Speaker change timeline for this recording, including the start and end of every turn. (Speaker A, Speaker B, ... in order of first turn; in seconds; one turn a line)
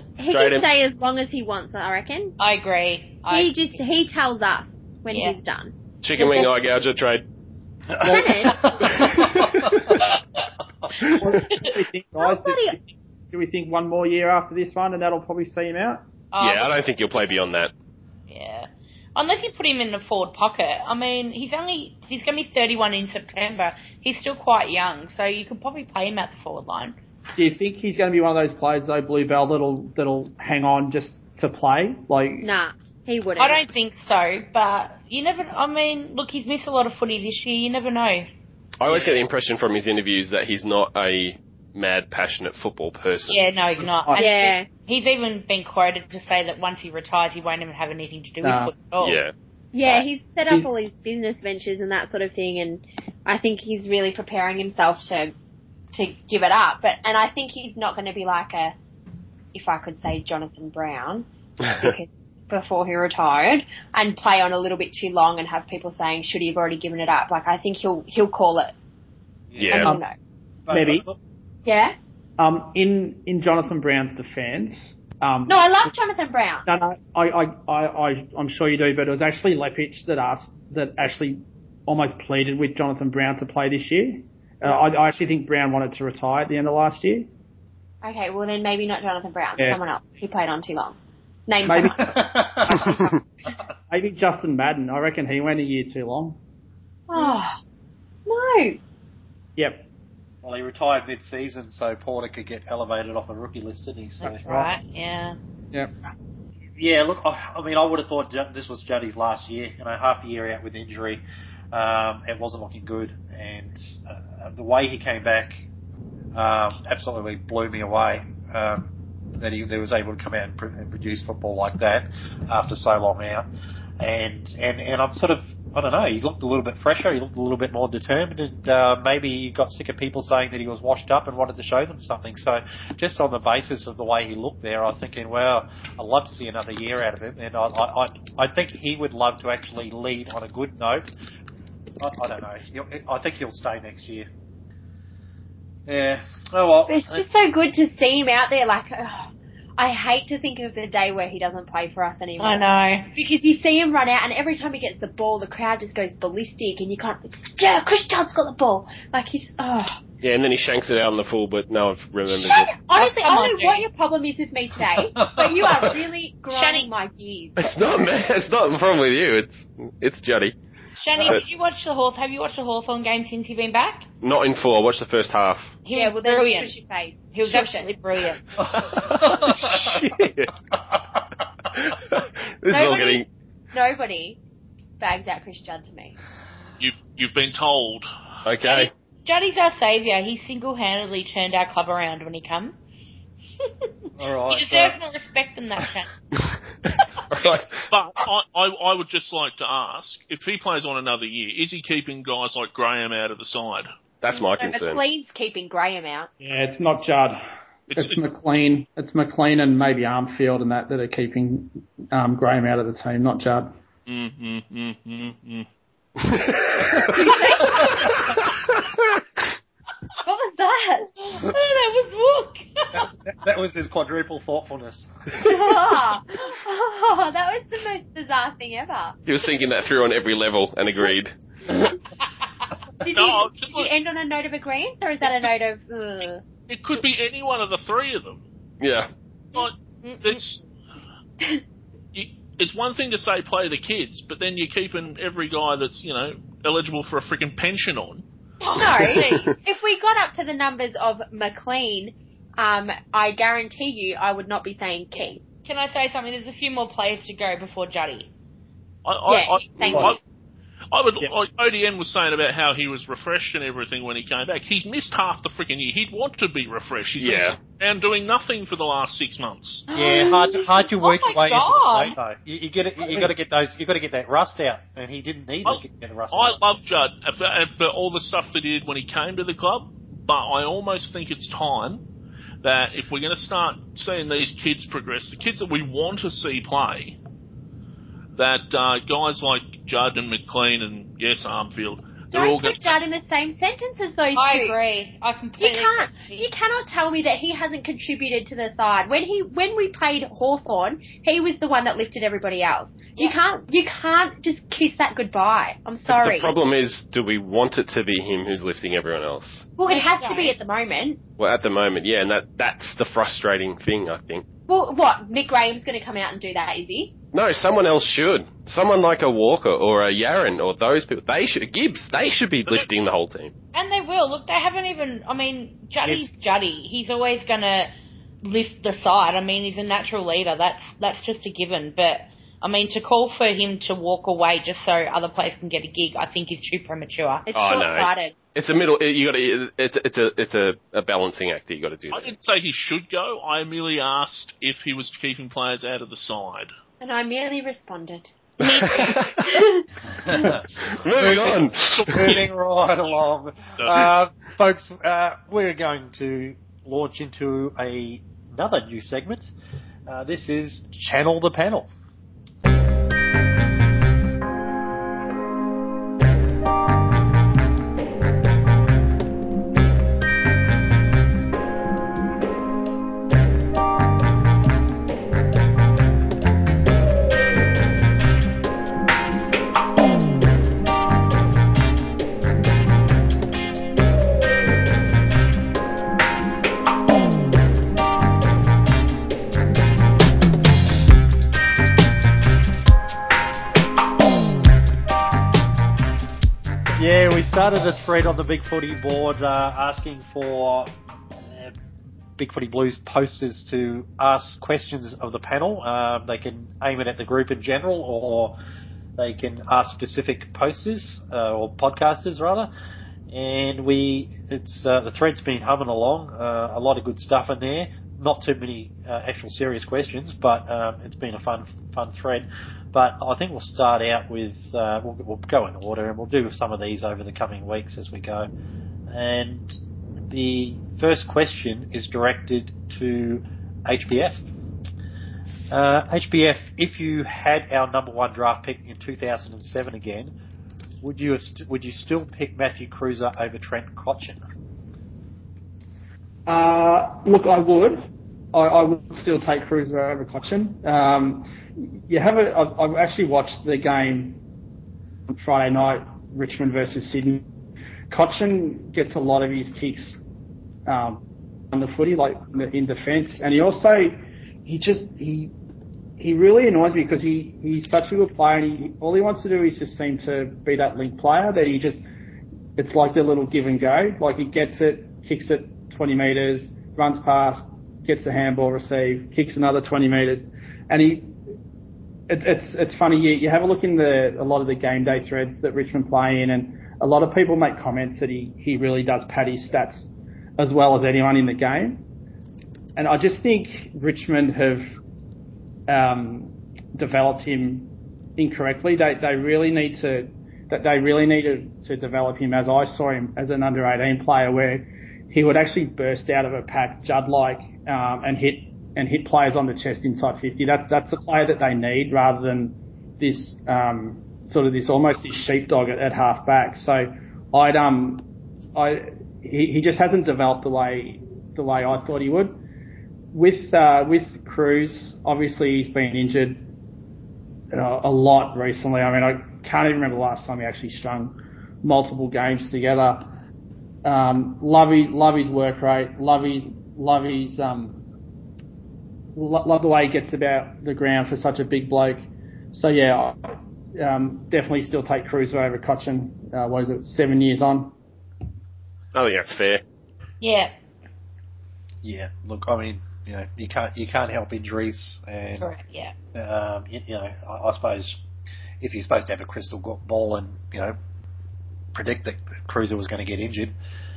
Speaker A: 0.2-2.3
Speaker B: 0.3-0.7
Speaker C: 2.4-3.5
Speaker A: 3.3-6.5
Speaker C: 5.1-5.4
Speaker B: 6.0-7.2
Speaker D: 8.0-9.7
Speaker A: 8.0-9.1
Speaker B: 8.9-10.1
Speaker E: 11.2-12.8
Speaker A: 12.2-12.8
Speaker E: 13.3-16.0
Speaker C: 16.3-16.8
Speaker B: 16.4-17.7
Speaker C: 18.3-27.0
Speaker E: 27.4-32.5
Speaker A: 32.4-33.6
Speaker C: 33.4-38.3
Speaker B: 38.8-43.4
Speaker C: 43.2-49.2
Speaker A: 44.2-44.7
Speaker E: 48.4-48.7
Speaker B: 49.0-50.0
Speaker A: 49.7-55.3
Speaker A: 55.9-58.7
Speaker A: 59.5-68.7
Speaker B: 61.6-61.9
Speaker D: 69.5-69.8
Speaker B: 69.6-70.0
Speaker A: 69.7-70.1
Speaker D: 70.7-71.2
Speaker E: 70.7-71.0
Speaker A: 71.6-72.0
Speaker E: 72.4-75.6
Speaker A: 75.5-76.7
Speaker E: 76.7-87.3
Speaker A: 88.0-92.1
Speaker E: 91.7-93.0
Speaker D: 91.9-92.8
Speaker B: 92.8-93.1
Speaker E: 93.9-96.4
Speaker A: 97.1-97.6
Speaker C: 97.1-97.4
Speaker A: 98.2-98.8
Speaker E: 99.6-99.8
Speaker D: 100.4-104.4
Speaker E: 104.2-104.7
Speaker C: 104.4-105.4
Speaker D: 106.8-115.6
Speaker D: 116.3-123.5
Speaker D: 124.0-141.1
Speaker D: 142.0-144.3
Speaker D: 145.9-147.3
Speaker A: 146.9-160.0
Speaker C: 152.4-153.1
Speaker B: 160.2-162.8
Speaker A: 162.3-167.7
Speaker C: 162.9-163.9
Speaker C: 166.5-166.9
Speaker B: 167.6-170.6
Speaker C: 171.0-174.1
Speaker B: 174.2-175.8
Speaker C: 175.8-176.8
Speaker A: 175.9-177.9
Speaker C: 177.3-178.4
Speaker D: 178.7-180.3
Speaker B: 179.6-180.5
Speaker B: 181.7-183.3
Speaker A: 182.7-184.4
Speaker A: 185.0-186.2
Speaker F: 186.8-188.1
Speaker B: 188.4-188.9
Speaker C: 188.6-192.8
Speaker D: 194.2-195.0
Speaker C: 194.5-196.1
Speaker B: 197.3-197.9
Speaker F: 197.4-203.9
Speaker B: 204.2-205.0
Speaker A: 204.3-206.3
Speaker E: 206.4-207.4
Speaker F: 207.9-208.2
Speaker E: 207.9-213.7
Speaker F: 214.1-215.7
Speaker B: 216.6-217.1
Speaker A: 217.1-217.9
Speaker A: 220.2-221.2
Speaker C: 221.2-223.1
Speaker D: 222.9-225.1
Speaker A: 225.4-229.2
Speaker B: 229.2-231.8
Speaker A: 233.0-236.4
Speaker F: 233.1-233.9
Speaker F: 236.7-238.4
Speaker B: 238.8-239.1
Speaker F: 239.5-240.6
Speaker C: 239.5-240.5
Speaker F: 242.1-248.2
Speaker A: 248.6-255.4
Speaker C: 248.7-249.6
Speaker C: 255.6-258.3
Speaker F: 259.0-260.2
Speaker A: 259.3-260.2
Speaker F: 260.9-269.8
Speaker B: 267.2-267.6
Speaker D: 269.9-276.6
Speaker C: 269.9-272.1
Speaker F: 275.6-282.0
Speaker F: 282.6-287.2
Speaker F: 288.4-293.0
Speaker A: 292.3-294.8
Speaker C: 294.3-296.5
Speaker A: 295.6-306.5
Speaker B: 306.0-309.7
Speaker A: 309.8-311.2
Speaker C: 309.9-310.5
Speaker B: 311.4-314.4
Speaker A: 314.7-317.1
Speaker B: 317.3-323.5
Speaker F: 322.6-323.1
Speaker C: 323.7-327.9
Speaker C: 328.4-337.5
Speaker A: 337.4-338.4
Speaker B: 337.5-342.3
Speaker F: 342.1-346.7
Speaker A: 347.0-348.5
Speaker C: 348.6-349.1
Speaker B: 348.6-349.4
Speaker A: 349.4-349.8
Speaker D: 350.2-350.6
Speaker B: 350.8-352.4
Speaker D: 351.1-359.5
Speaker F: 351.5-352.4
Speaker F: 353.8-354.0
Speaker D: 360.1-361.9
Speaker D: 396.9-400.9
Speaker D: 401.5-401.7
Speaker D: 402.4-408.6
Speaker D: 409.2-412.7
Speaker D: 413.3-428.5
Speaker D: 429.1-429.8
Speaker D: 430.3-434.4
Speaker D: 435.7-440.3
Speaker D: 441.0-444.4
Speaker E: 446.4-454.4
Speaker E: 455.3-457.4
Speaker E: 458.1-460.2
Speaker E: 460.9-461.2
Speaker E: 461.7-465.5
Speaker E: 466.2-472.0
Speaker E: 472.8-481.3
Speaker E: 482.3-492.0
Speaker E: 492.9-494.9
Speaker E: 495.9-522.5
Speaker E: 523.3-526.7
Speaker E: 527.7-533.3
Speaker E: 534.0-538.0
Speaker E: 539.3-547.9
Speaker B: 549.1-549.8
Speaker C: 550.4-550.7
Speaker D: 552.0-555.7
Speaker C: 555.6-556.1
Speaker D: 556.3-558.2
Speaker D: 558.8-561.0
Speaker D: 561.9-563.7